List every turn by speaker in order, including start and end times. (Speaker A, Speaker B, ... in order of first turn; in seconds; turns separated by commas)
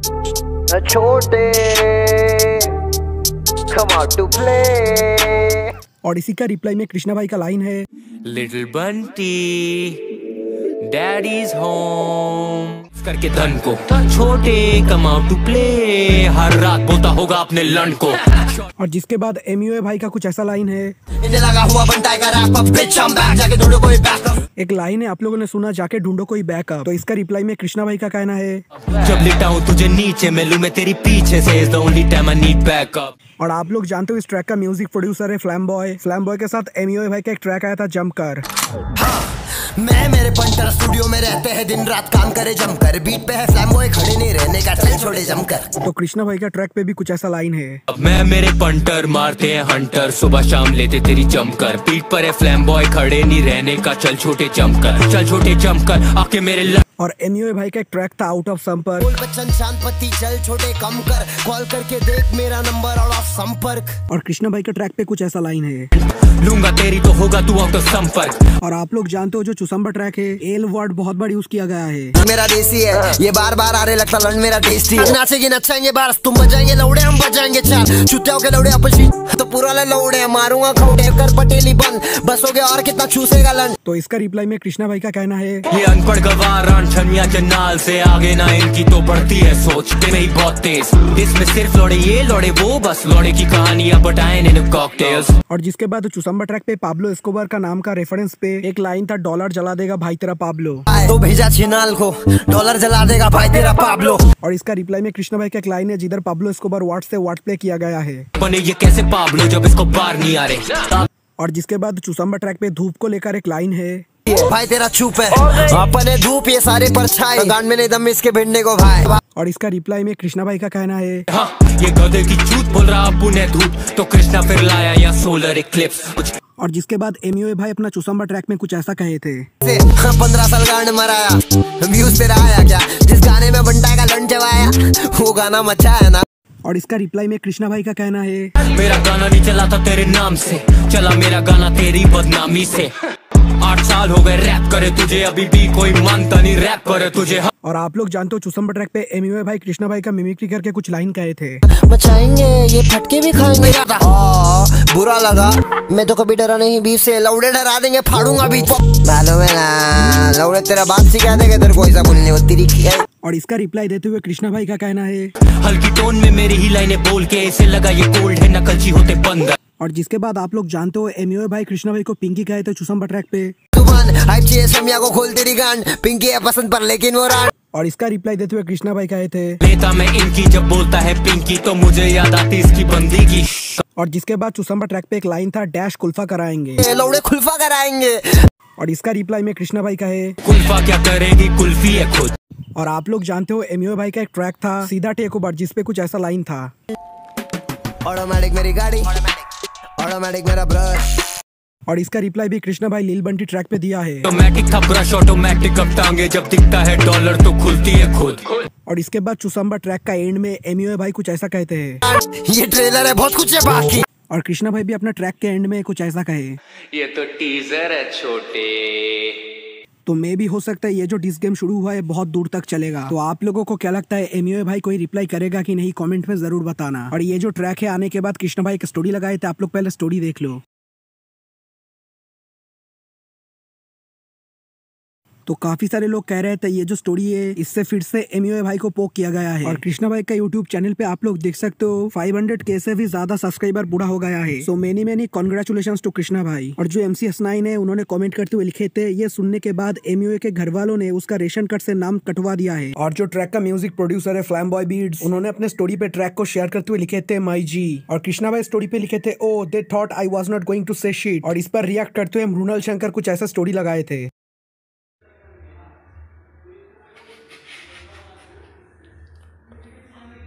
Speaker A: 0.7-2.7, Speaker A: 3.7-5.7, Speaker B: 6.0-7.9, Speaker C: 8.2-10.0, Speaker C: 10.8-18.6, Speaker B: 18.8-21.0, Speaker A: 21.2-24.4, Speaker B: 24.6-28.6, Speaker C: 29.0-33.1, Speaker B: 33.4-38.5, Speaker A: 39.0-45.8, Speaker B: 45.8-47.8, Speaker C: 47.9-56.8, Speaker B: 57.0-59.1, Speaker A: 59.0-64.0, Speaker B: 64.1-65.9, Speaker C: 66.0-68.4, Speaker B: 68.6-72.2, Speaker A: 72.2-83.8, Speaker B: 83.8-85.7, Speaker C: 85.7-95.3, Speaker B: 95.5-100.8, Speaker A: 100.9-104.3, Speaker B: 104.4-108.3, Speaker C: 108.4-111.1, Speaker B: 111.4-114.1, Speaker A: 114.3-119.2, Speaker B: 119.3-121.3, Speaker C: 121.3-126.3, Speaker B: 126.6-129.5, Speaker A: 129.6-136.2, Speaker B: 136.6-138.6, Speaker C: 138.6-142.9, Speaker C: 143.6-147.5, Speaker B: 147.6-151.6, Speaker A: 151.7-163.1, Speaker B: 163.2-165.3, Speaker C: 165.5-169.6, Speaker B: 169.8-173.6, Speaker A: 173.8-177.5, Speaker B: 177.7-179.6, Speaker C: 179.6-183.8, Speaker B: 183.9-186.8, Speaker A: 186.8-188.4, Speaker B: 188.8-190.4, Speaker C: 190.4-192.3, Speaker B: 192.8-196.7, Speaker A: 198.1-199.5, Speaker A: 200.0-201.2, Speaker B: 201.9-204.3, Speaker C: 204.2-208.6, Speaker B: 208.9-212.0, Speaker A: 212.1-214.1, Speaker B: 214.3-216.6, Speaker C: 216.9-219.5, Speaker B: 220.1-230.6, Speaker B: 235.5-264.3